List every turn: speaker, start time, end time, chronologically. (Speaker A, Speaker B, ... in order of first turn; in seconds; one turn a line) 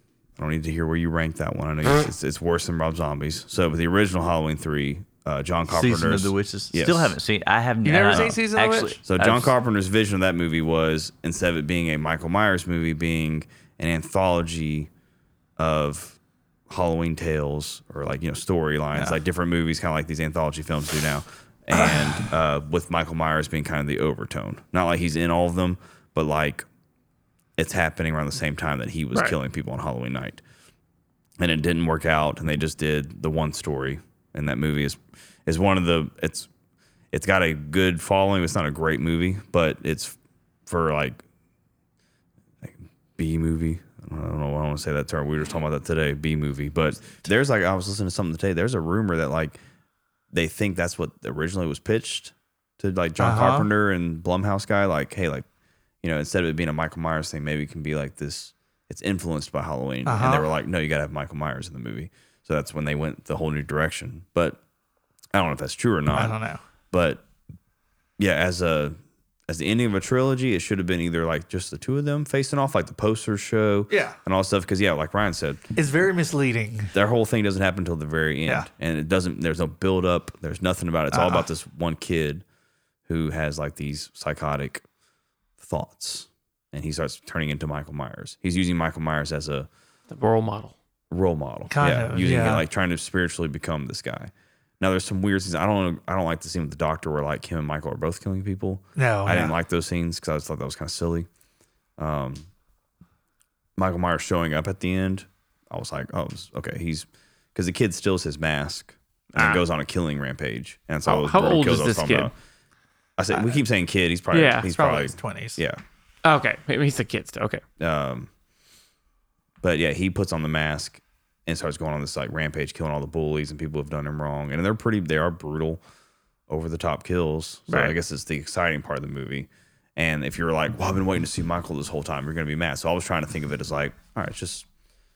Speaker A: 0.4-7.2
Speaker B: 5.7-9.5
Speaker C: 7.8-9.0
Speaker A: 9.0-14.9
Speaker A: 15.6-26.6
Speaker C: 18.9-19.2
Speaker C: 21.8-22.0
Speaker A: 27.6-30.4
Speaker A: 31.4-36.5
Speaker A: 37.1-41.2
Speaker A: 42.6-49.6
Speaker A: 50.3-55.5
Speaker C: 53.2-53.7
Speaker A: 56.0-64.6
Speaker C: 60.0-60.5
Speaker A: 65.3-66.3
Speaker C: 66.1-66.6
Speaker A: 66.9-67.2
Speaker A: 68.2-69.0
Speaker A: 69.5-75.6
Speaker C: 73.9-74.2
Speaker C: 75.8-76.9
Speaker A: 76.9-82.4
Speaker C: 81.1-81.5
Speaker A: 83.1-84.8
Speaker A: 85.6-89.7
Speaker D: 90.1-90.7
Speaker A: 91.1-101.3
Speaker C: 91.7-92.6
Speaker C: 99.0-99.5
Speaker A: 102.0-102.5
Speaker A: 103.8-112.3
Speaker D: 109.3-109.6
Speaker D: 111.0-112.3
Speaker A: 113.2-115.8
Speaker D: 114.3-114.7
Speaker C: 114.7-115.6
Speaker D: 116.2-117.6
Speaker A: 117.8-118.3
Speaker A: 119.6-125.8
Speaker A: 126.5-134.7
Speaker D: 127.7-128.0